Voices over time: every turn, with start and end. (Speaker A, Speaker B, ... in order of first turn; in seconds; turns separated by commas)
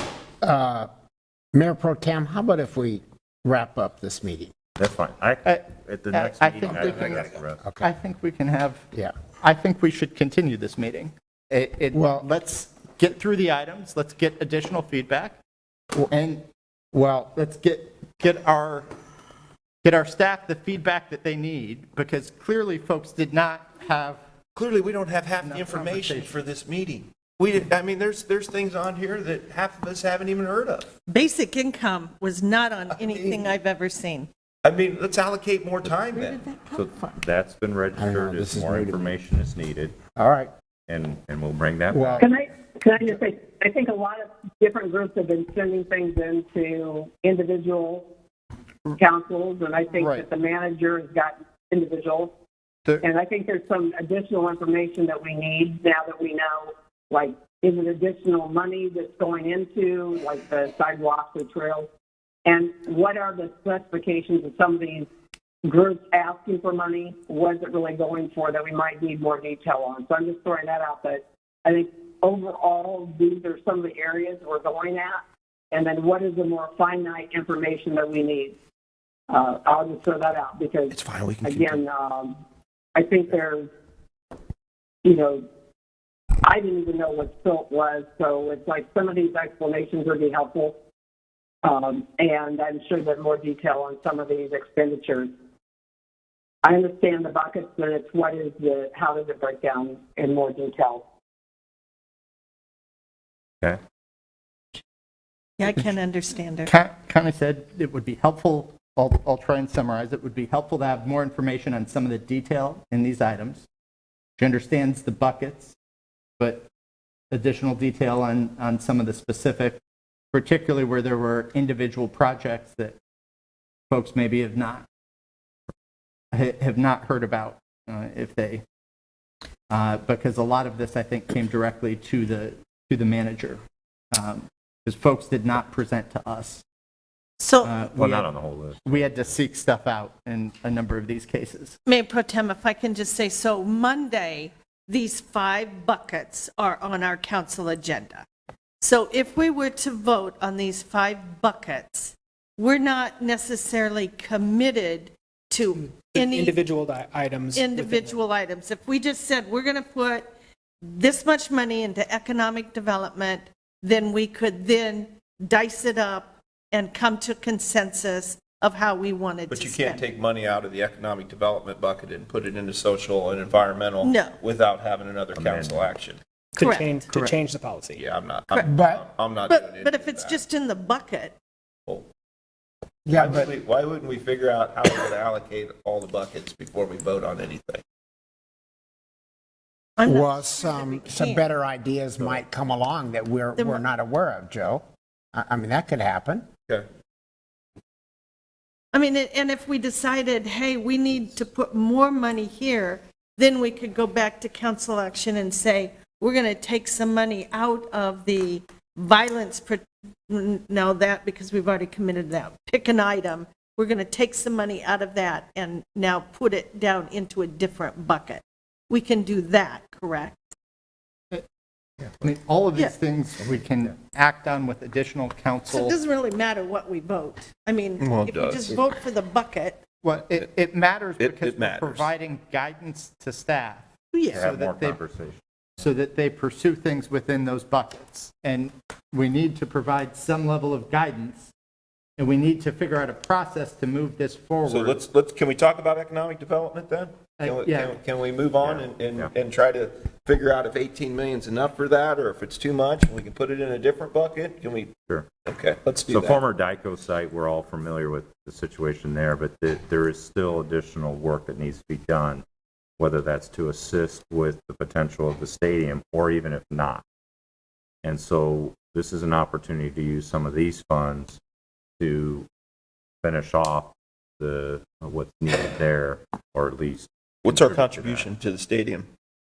Speaker A: 0.4-0.9, Speaker A: 1.5-4.5, Speaker B: 4.8-7.6, Speaker C: 5.4-7.1, Speaker A: 6.6-7.9, Speaker D: 6.8-7.3, Speaker C: 7.8-8.8, Speaker C: 9.4-15.4, Speaker A: 11.9-12.2, Speaker C: 16.1-18.9, Speaker A: 17.0-17.3, Speaker C: 19.8-24.2, Speaker D: 24.5-30.9, Speaker C: 25.4-26.3, Speaker E: 31.1-34.3, Speaker D: 32.9-33.5, Speaker D: 34.6-36.4, Speaker E: 36.1-37.2, Speaker B: 36.7-40.0, Speaker A: 38.0-39.0, Speaker A: 40.1-40.5, Speaker B: 40.9-42.4, Speaker A: 41.9-42.3, Speaker F: 42.2-48.1, Speaker F: 48.9-52.3, Speaker C: 49.9-50.2, Speaker F: 53.0-61.9, Speaker F: 62.5-65.1, Speaker F: 65.7-78.5, Speaker F: 79.3-82.3, Speaker D: 80.9-81.8, Speaker F: 82.9-83.7, Speaker F: 85.0-85.4, Speaker F: 86.4-90.8, Speaker F: 91.6-95.3, Speaker F: 96.6-101.0, Speaker E: 105.6-106.7, Speaker C: 106.6-113.6, Speaker C: 114.4-115.8, Speaker C: 116.4-116.7, Speaker C: 117.3-119.8, Speaker C: 120.3-123.0, Speaker C: 123.9-124.8, Speaker C: 126.3-128.6, Speaker C: 129.7-133.6, Speaker C: 134.1-136.6, Speaker E: 137.4-137.8, Speaker C: 137.6-138.3, Speaker B: 137.9-139.3, Speaker C: 138.8-141.8, Speaker E: 141.8-148.2, Speaker E: 148.8-156.6, Speaker G: 155.8-158.2, Speaker E: 157.5-170.0, Speaker D: 169.5-176.2, Speaker E: 174.0-174.3, Speaker B: 175.3-175.9, Speaker G: 176.5-178.0, Speaker E: 176.6-177.0, Speaker D: 177.9-180.4, Speaker A: 178.6-179.1, Speaker E: 179.4-181.3, Speaker A: 183.1-183.5, Speaker D: 183.1-187.8, Speaker E: 190.0-191.4, Speaker A: 190.1-196.4, Speaker E: 198.9-220.4, Speaker C: 222.2-226.0, Speaker E: 225.7-229.8, Speaker D: 228.0-228.8, Speaker C: 230.0-235.0, Speaker D: 231.2-232.1, Speaker E: 234.1-234.5, Speaker B: 234.3-235.8, Speaker C: 235.8-241.5, Speaker C: 242.2-244.9, Speaker D: 244.7-254.9, Speaker C: 247.4-248.0, Speaker B: 248.6-249.3, Speaker D: 255.4-256.4, Speaker B: 256.1-262.4, Speaker B: 263.0-267.0, Speaker B: 268.0-271.4, Speaker B: 272.0-272.5, Speaker B: 273.2-278.3, Speaker D: 277.4-279.1